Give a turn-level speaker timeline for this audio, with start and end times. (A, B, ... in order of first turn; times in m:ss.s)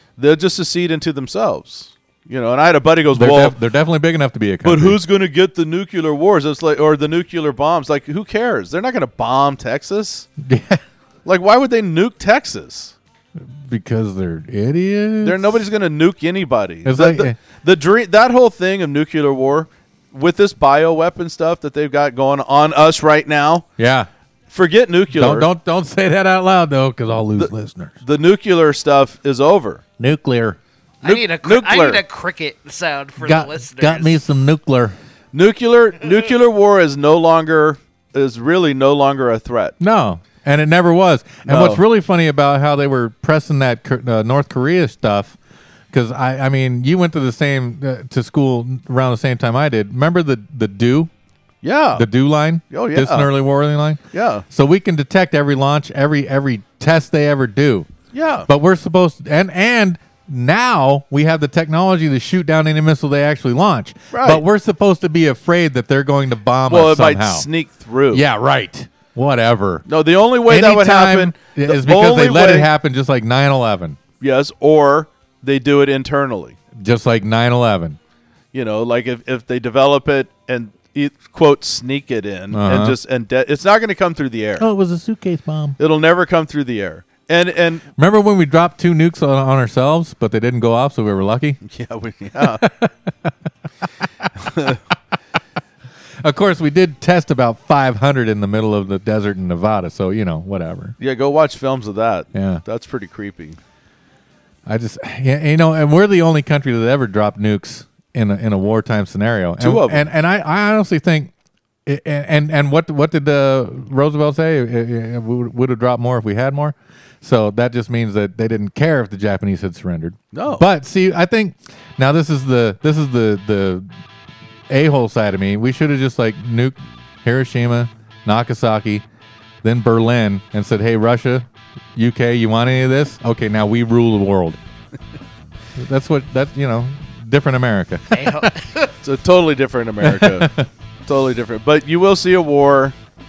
0:00.2-0:03.6 A
0:03.1-0:05.0 B
0:04.6-0:10.3 A
0:10.4-0:10.8 B
0:11.2-0:13.0 A
0:13.6-0:15.6 B
0:15.2-0:23.6 A
0:16.8-0:17.4 B
0:23.8-0:24.1 B
0:24.5-0:25.5 A
0:25.1-0:27.9 B
0:27.4-0:29.8 A
0:30.0-0:30.6 B
0:31.0-0:32.0 A
0:31.0-0:34.2 C
0:33.2-0:35.0 B
0:35.3-0:39.8 A
0:39.8-0:45.4 B
0:41.4-0:41.8 A
0:45.9-0:51.1 B
0:51.6-0:52.0 A
0:52.0-0:57.9 B
0:52.7-0:53.3 A
0:54.1-0:54.4 A
0:58.1-0:58.5 A
0:58.5-1:07.5 B
1:04.1-1:04.4 A
1:06.7-1:08.2 A
1:08.1-1:09.8 B
1:09.9-1:12.7 A
1:10.4-1:14.0 B
1:14.2-1:16.6 A
1:16.8-1:18.0 B
1:18.5-1:24.6 A
1:22.5-1:23.0 B
1:24.6-1:25.8 B
1:25.8-1:27.8 A
1:28.0-1:31.6 B
1:31.6-1:32.6 A
1:32.4-1:33.3 B
1:34.4-1:34.8 A
1:36.2-1:41.0 B
1:41.0-1:43.6 A
1:42.3-1:42.6 B
1:44.6-1:51.3 B
1:49.6-1:50.0 A
1:51.9-2:03.9 B
2:00.3-2:00.6 A
2:04.7-2:09.0 B
2:09.6-2:14.6 B
2:15.8-2:18.5 B
2:18.1-2:18.9 C
2:19.0-2:20.5 A
2:20.0-2:20.7 B
2:21.0-2:22.9 A